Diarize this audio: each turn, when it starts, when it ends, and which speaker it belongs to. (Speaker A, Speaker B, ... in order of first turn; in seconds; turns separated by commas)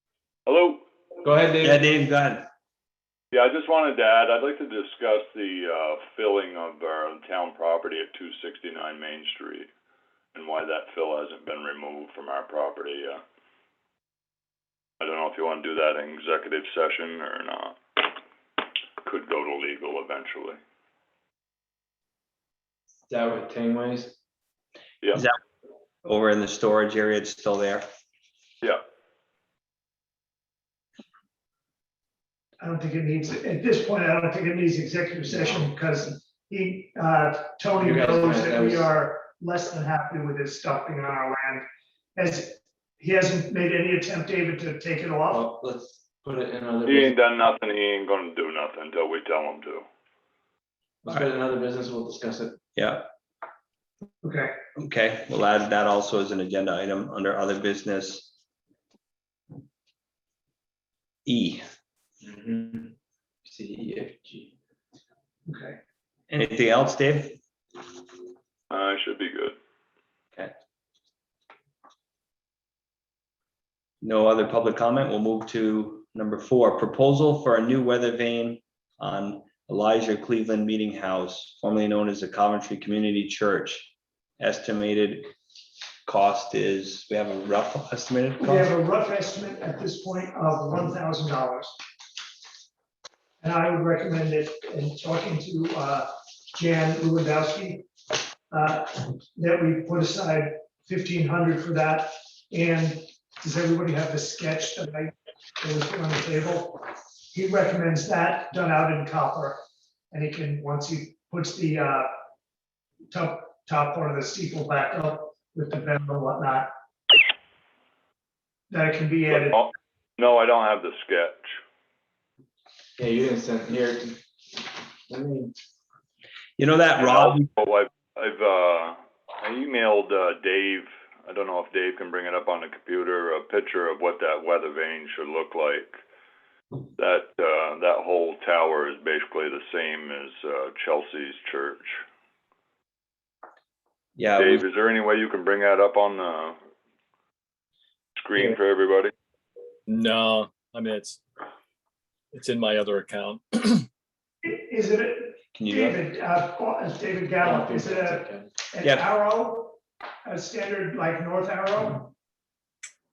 Speaker A: 0.5-0.8, Speaker B: 1.2-1.8, Speaker C: 1.6-2.5, Speaker A: 3.3-9.7, Speaker A: 10.3-13.2, Speaker A: 15.0-18.0, Speaker A: 19.0-20.6, Speaker B: 23.1-24.1, Speaker C: 26.0-27.9, Speaker D: 32.6-41.6, Speaker B: 37.8-38.9, Speaker D: 42.1-45.4, Speaker B: 45.3-47.1, Speaker A: 46.9-49.9, Speaker B: 51.0-52.6, Speaker C: 52.8-53.1, Speaker D: 54.2-54.5, Speaker C: 54.8-58.3, Speaker C: 61.2-61.6, Speaker B: 62.2-64.5, Speaker D: 65.5-65.8, Speaker C: 66.3-67.4, Speaker A: 68.7-69.5, Speaker C: 74.0-85.3, Speaker C: 86.0-88.7, Speaker D: 88.4-91.8, Speaker D: 93.4-97.8, Speaker D: 98.5-109.6, Speaker D: 110.1-112.1, Speaker D: 113.1-116.7, Speaker D: 118.7-119.6, Speaker A: 119.3-121.6, Speaker B: 123.0-124.2, Speaker B: 125.1-125.5, Speaker C: 126.6-127.5, Speaker A: 127.0-136.0, Speaker A: 137.0-142.0, Speaker C: 144.2-144.6, Speaker A: 144.4-146.6, Speaker A: 148.2-149.1, Speaker E: 149.9-151.2, Speaker E: 152.3-153.8, Speaker D: 154.4-162.1, Speaker C: 155.5-156.0, Speaker B: 157.4-158.5, Speaker C: 158.8-159.1